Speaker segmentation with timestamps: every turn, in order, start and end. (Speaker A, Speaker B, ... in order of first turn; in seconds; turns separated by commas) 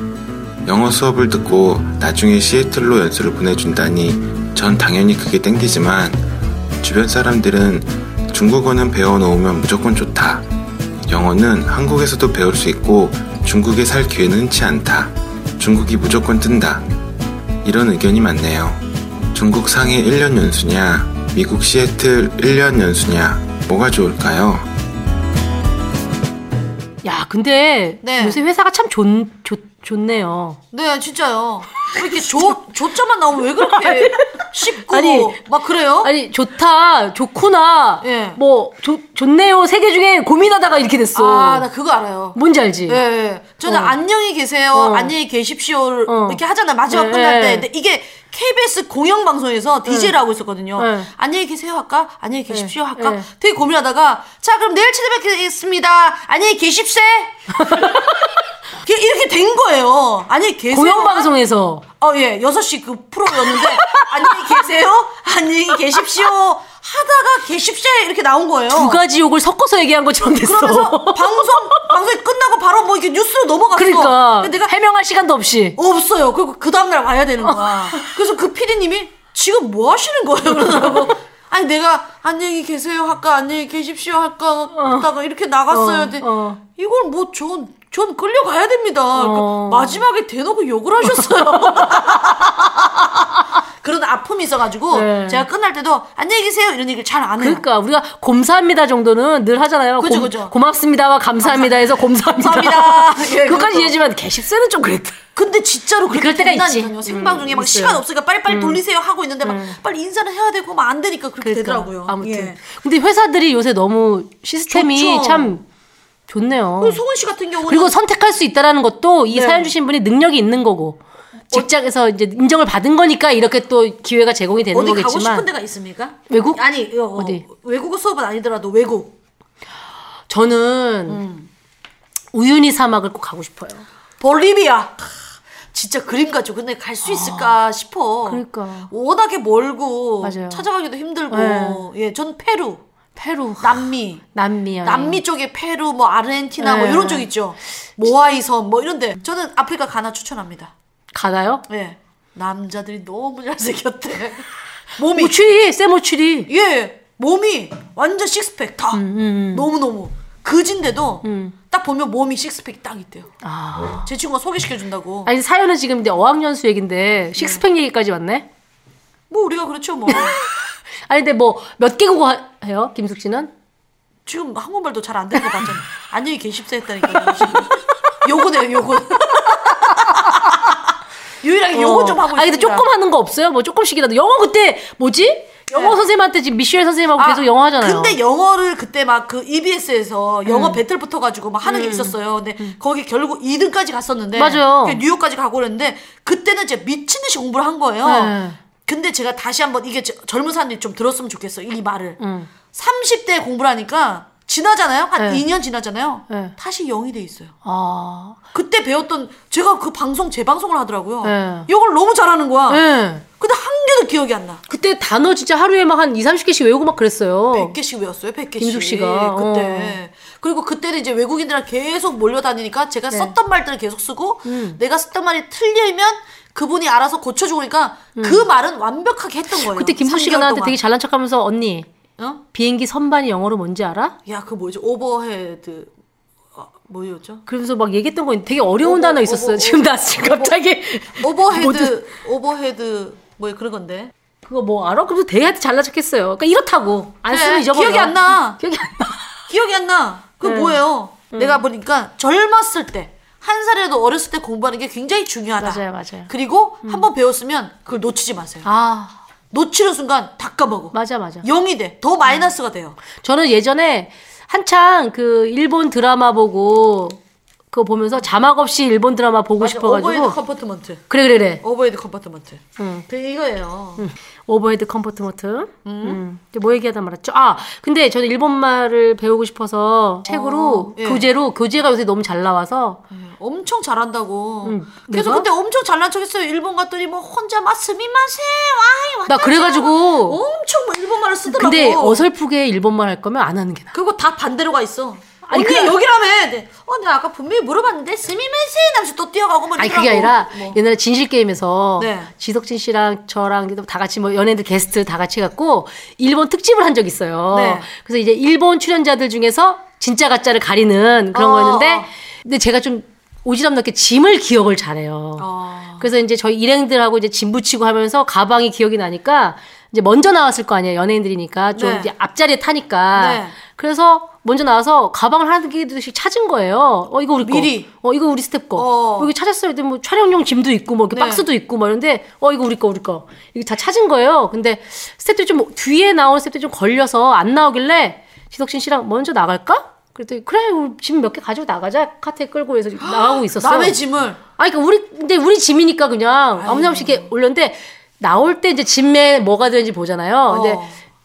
Speaker A: 0.7-6.2, Speaker A: 6.8-10.5, Speaker A: 11.0-16.9, Speaker A: 17.6-24.7, Speaker B: 27.0-30.6, Speaker C: 28.0-28.4, Speaker C: 30.7-36.1, Speaker B: 33.7-35.4, Speaker B: 36.0-41.7, Speaker C: 38.0-38.4, Speaker C: 41.1-42.4, Speaker B: 42.3-43.0, Speaker C: 42.9-58.0, Speaker B: 43.7-44.0, Speaker B: 44.7-45.1, Speaker B: 46.1-47.7, Speaker B: 49.9-50.1, Speaker B: 50.8-51.1, Speaker B: 52.5-53.3, Speaker B: 57.6-58.2, Speaker C: 58.8-61.3, Speaker B: 60.7-61.8, Speaker C: 62.0-69.0, Speaker B: 63.3-64.6, Speaker B: 68.7-71.9, Speaker C: 70.3-74.7, Speaker B: 73.8-75.8, Speaker C: 75.8-93.3, Speaker B: 77.4-78.1, Speaker B: 80.6-81.1, Speaker B: 84.7-85.1, Speaker B: 85.7-86.6, Speaker B: 89.2-90.0, Speaker B: 91.0-92.0, Speaker C: 93.8-97.6, Speaker B: 94.9-95.5, Speaker B: 97.4-105.2, Speaker C: 100.0-100.5, Speaker C: 101.4-104.0, Speaker C: 105.4-112.6, Speaker B: 106.1-108.8, Speaker B: 109.4-109.8, Speaker B: 111.4-115.6, Speaker C: 114.7-115.6, Speaker B: 116.3-117.0, Speaker C: 116.8-118.0, Speaker B: 117.7-121.0, Speaker C: 119.3-119.7, Speaker B: 121.5-125.5, Speaker C: 124.7-129.2, Speaker B: 126.3-126.6, Speaker B: 127.2-127.4, Speaker B: 130.3-131.2, Speaker C: 131.1-131.5, Speaker B: 132.3-133.9, Speaker C: 134.2-135.1, Speaker C: 135.7-142.8, Speaker B: 137.1-137.5, Speaker B: 138.3-138.9, Speaker B: 140.2-140.6, Speaker B: 141.3-141.9, Speaker B: 143.2-145.2, Speaker C: 143.6-144.3, Speaker C: 144.8-150.7, Speaker B: 146.6-147.3, Speaker B: 151.1-151.6, Speaker C: 151.7-155.4, Speaker B: 155.2-156.5, Speaker C: 156.5-163.3, Speaker B: 158.9-159.7, Speaker B: 161.2-161.6, Speaker B: 163.4-164.1, Speaker C: 164.1-165.3, Speaker B: 165.3-168.5, Speaker C: 167.4-167.6, Speaker C: 169.3-170.3, Speaker B: 170.1-170.3, Speaker B: 171.1-173.5, Speaker C: 174.3-180.8, Speaker C: 181.4-182.9, Speaker B: 181.7-188.2, Speaker C: 185.7-186.0, Speaker C: 187.2-198.3, Speaker B: 190.5-190.8, Speaker B: 191.6-192.8, Speaker B: 194.3-195.0, Speaker B: 198.0-198.6, Speaker C: 198.8-202.2, Speaker B: 202.2-202.5, Speaker C: 202.7-207.6, Speaker B: 205.2-205.4, Speaker B: 206.3-206.5, Speaker B: 207.6-208.4, Speaker C: 208.5-214.6, Speaker B: 211.2-211.7, Speaker B: 212.7-213.2, Speaker B: 214.7-217.8, Speaker C: 217.5-230.8, Speaker B: 218.6-220.0, Speaker B: 224.5-224.8, Speaker B: 228.2-228.5, Speaker B: 229.7-231.9, Speaker B: 232.5-234.2, Speaker C: 234.3-235.9, Speaker C: 236.6-237.4, Speaker B: 237.5-242.0, Speaker C: 238.8-240.6, Speaker C: 241.2-244.1, Speaker B: 244.5-249.3, Speaker C: 247.3-248.6, Speaker C: 249.5-258.7, Speaker B: 250.4-251.6, Speaker B: 255.6-256.3, Speaker B: 258.6-259.2, Speaker C: 259.5-263.0, Speaker B: 260.9-261.5, Speaker B: 263.1-267.2, Speaker B: 267.7-270.4, Speaker C: 269.6-271.1, Speaker B: 271.1-271.6, Speaker C: 271.6-274.0, Speaker B: 272.8-273.1, Speaker B: 274.0-283.0, Speaker C: 275.9-276.2, Speaker C: 280.3-281.3, Speaker C: 283.1-292.2, Speaker B: 284.6-285.5, Speaker B: 289.3-290.4, Speaker B: 291.5-293.9, Speaker C: 293.9-300.8, Speaker B: 295.5-296.0, Speaker B: 299.8-315.5, Speaker C: 302.0-302.3, Speaker C: 307.5-307.9, Speaker C: 311.3-312.1, Speaker C: 315.4-316.1, Speaker B: 316.0-350.8, Speaker C: 321.8-322.1, Speaker C: 323.1-323.6, Speaker C: 327.4-327.9, Speaker C: 328.8-329.3, Speaker C: 331.1-331.4, Speaker C: 343.0-344.4, Speaker C: 346.6-347.3, Speaker C: 350.5-350.9